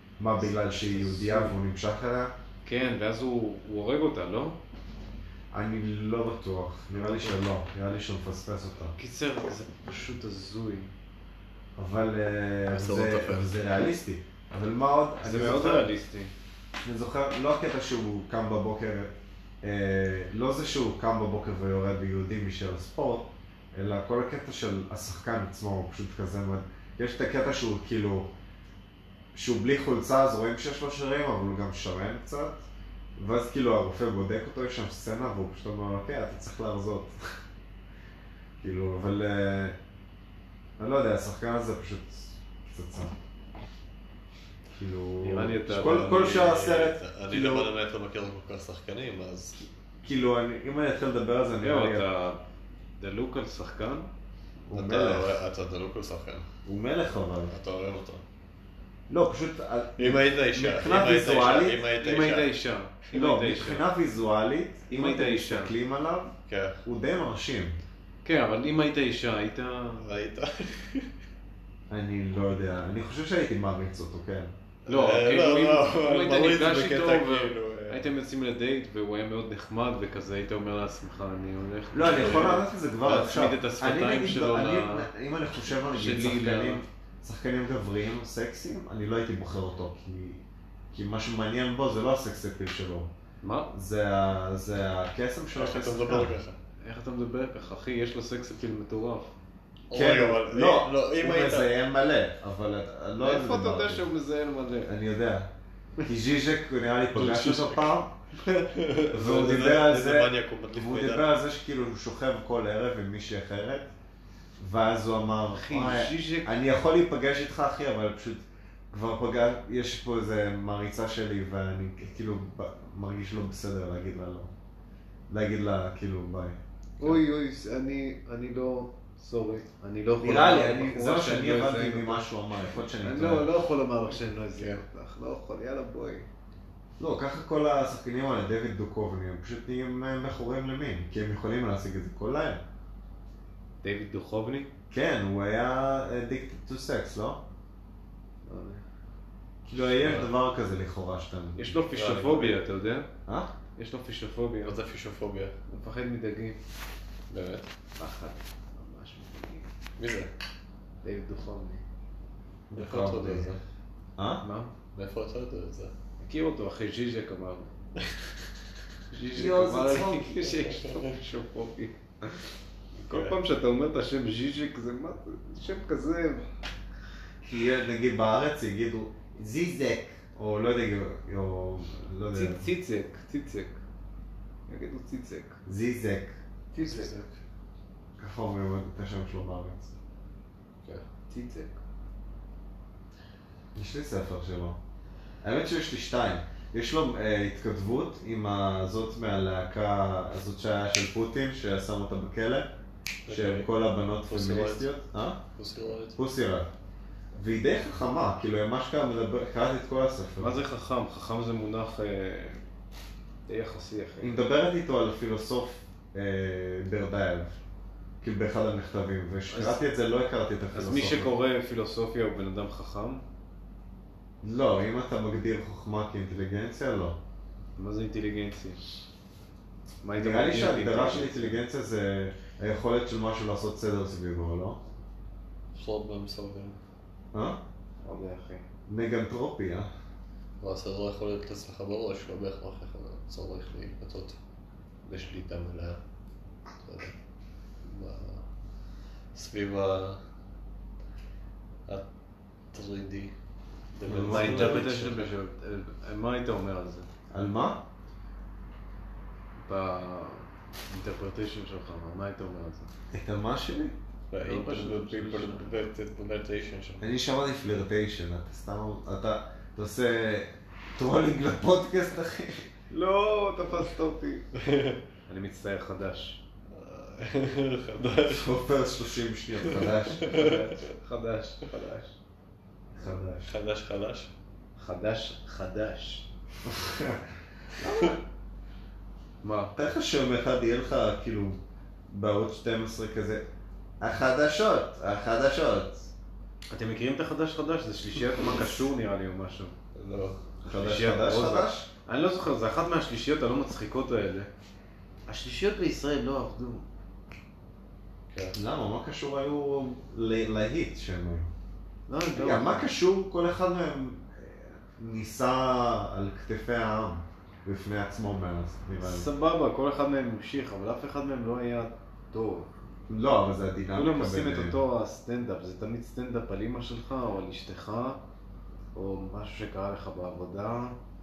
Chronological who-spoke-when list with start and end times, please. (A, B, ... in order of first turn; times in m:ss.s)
0:00.2-0:02.3 A
0:00.4-0:01.6 B
0:02.6-0:04.6 B
0:05.5-0:09.0 A
0:07.0-0:07.3 C
0:09.0-0:10.9 B
0:11.8-0:15.9 A
0:12.7-0:13.6 C
0:15.2-0:16.3 B
0:16.8-0:28.3 A
0:29.3-0:32.6 A
0:33.2-0:37.2 A
0:38.6-0:39.8 A
0:40.8-0:43.1 A
0:44.8-0:47.7 A
0:45.2-0:46.6 B
0:45.8-0:49.6 C
0:50.0-0:52.1 A
0:51.6-0:52.4 B
0:53.0-0:54.1 B
0:54.7-0:55.3 A
0:54.7-0:56.5 C
0:56.6-0:57.6 A
0:57.5-0:58.2 C
0:59.1-1:01.9 A
1:00.0-1:02.5 C
1:02.0-1:03.8 B
1:03.1-1:06.3 A
1:04.9-1:05.7 B
1:06.5-1:06.8 C
1:06.8-1:07.8 A
1:08.2-1:10.1 B
1:10.0-1:11.1 C
1:11.9-1:14.5 A
1:14.9-1:18.1 C
1:14.9-1:25.1 B
1:21.9-1:33.1 A
1:22.1-1:22.7 C
1:25.9-1:26.8 B
1:33.4-1:33.8 B
1:33.7-1:36.4 A
1:35.6-1:36.6 C
1:36.8-1:39.3 B
1:39.9-1:41.8 C
1:39.9-1:44.1 A
1:43.2-1:45.0 B
1:44.8-1:45.5 A
1:46.0-1:48.1 A
1:47.1-1:51.3 C
1:49.1-1:53.9 A
1:54.6-2:04.5 A
1:55.5-1:56.6 B
2:05.3-2:06.6 A
2:07.0-2:12.3 B
2:10.2-2:13.5 A
2:12.9-2:16.3 B
2:14.6-2:14.8 C
2:17.0-2:22.6 A
2:23.8-2:24.7 B
2:24.9-2:27.4 A
2:28.4-2:28.8 B
2:29.6-2:31.7 A
2:30.0-2:30.3 C
2:31.6-2:33.1 B
2:31.9-2:32.6 C
2:33.3-2:33.5 A
2:33.8-2:34.8 B
2:34.6-2:35.5 C
2:35.7-2:36.6 B
2:37.3-2:37.7 C
2:38.0-2:39.7 B
2:40.0-2:40.3 C
2:41.0-2:41.8 B
2:42.7-2:43.5 A
2:42.8-2:43.6 C
2:44.2-2:44.4 A
2:44.4-2:44.7 B
2:44.9-2:45.9 C
2:46.2-2:47.7 B
2:49.1-2:52.4 B
2:49.3-2:50.4 A
2:50.5-2:51.1 C
2:53.0-2:56.5 B
2:53.1-2:53.4 C
2:57.4-3:02.7 A
3:02.3-3:03.8 B
3:04.7-3:05.6 B
3:05.7-3:06.4 A
3:06.7-3:07.1 B
3:06.8-3:07.4 C
3:08.2-3:09.9 A
3:11.3-3:11.8 B
3:13.8-3:14.8 A
3:15.4-3:22.7 A
3:23.3-3:23.7 C
3:23.3-3:25.4 A
3:24.3-3:24.9 C
3:25.6-3:26.2 C
3:26.2-3:26.7 A
3:27.3-3:30.6 A
3:30.4-3:32.6 B
3:33.5-3:34.4 B
3:34.2-3:37.6 A
3:38.2-3:41.3 A
3:39.5-3:39.8 B
3:40.7-3:43.2 B
3:44.4-3:47.2 A
3:47.8-3:48.8 B
3:50.0-3:51.6 B
3:50.2-3:54.8 A
3:55.7-3:56.8 C
3:57.3-3:57.6 A
3:58.0-3:58.6 B
3:58.9-3:59.9 A
4:00.6-4:04.4 C
4:05.0-4:06.0 C
4:06.8-4:07.2 C
4:07.8-4:08.4 C
4:09.3-4:10.2 C
4:12.7-4:13.3 C
4:14.0-4:15.3 C
4:14.1-4:14.9 A
4:14.1-4:17.1 B
4:17.3-4:17.8 A
4:19.6-4:22.9 B
4:23.1-4:24.0 A
4:24.3-4:27.1 C
4:24.4-4:25.8 B
4:27.0-4:32.7 A
4:32.9-4:34.5 B
4:34.6-4:35.0 C
4:35.3-4:36.4 B
4:36.7-4:38.6 C
4:38.2-4:40.3 A
4:39.6-4:40.6 C
4:40.2-4:42.2 B
4:43.0-4:43.5 A
4:43.4-4:44.3 C
4:44.8-4:46.3 B
4:46.6-4:47.2 A
4:47.8-4:48.2 A
4:49.4-4:49.8 B
4:49.8-4:53.5 A
4:54.0-4:56.1 A
4:56.7-4:59.8 B
4:58.3-4:58.9 A
5:00.0-5:00.4 C
5:00.6-5:04.5 B
5:00.6-5:01.9 A
5:05.3-5:06.9 B
5:08.3-5:08.6 C
5:08.5-5:11.5 A
5:12.1-5:12.9 B
5:12.4-5:19.3 A
5:19.0-5:22.7 B
5:23.1-5:24.8 A
5:23.9-5:28.2 B
5:29.0-5:31.0 B